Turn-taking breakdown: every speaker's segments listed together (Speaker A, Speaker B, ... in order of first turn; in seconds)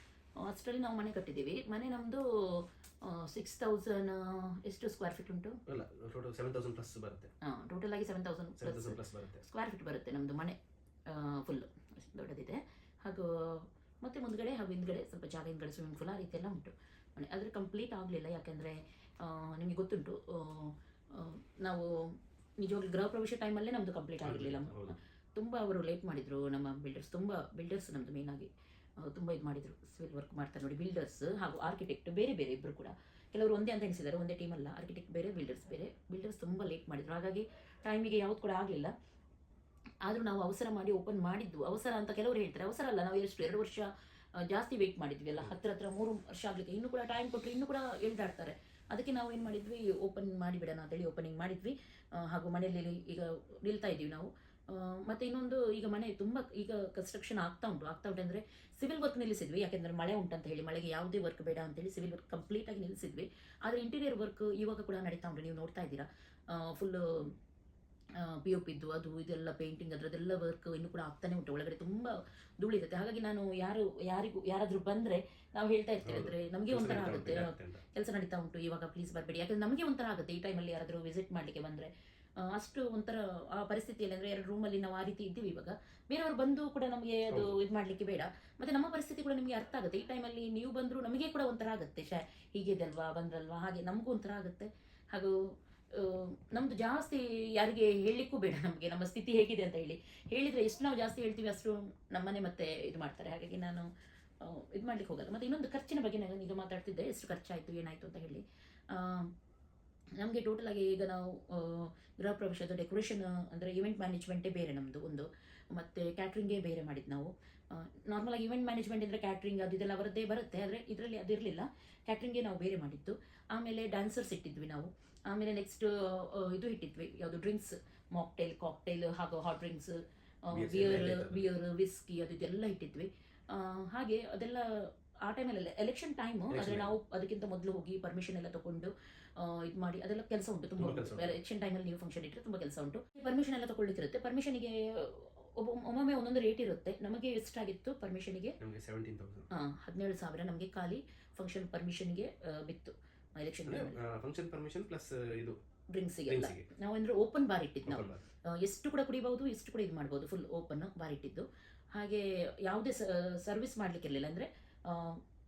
Speaker A: 0.4-5.6, 7.4-38.9, 40.0-67.3, 68.2-109.3, 110.2-148.6, 149.5-154.0, 155.9-165.2
Speaker B: 5.7-7.3, 8.6-9.4, 24.2-24.9, 76.0-77.8, 87.3-87.5, 130.5-131.5, 136.5-136.9, 140.8-141.4, 148.6-149.5, 153.7-155.6, 156.3-156.7, 157.8-158.2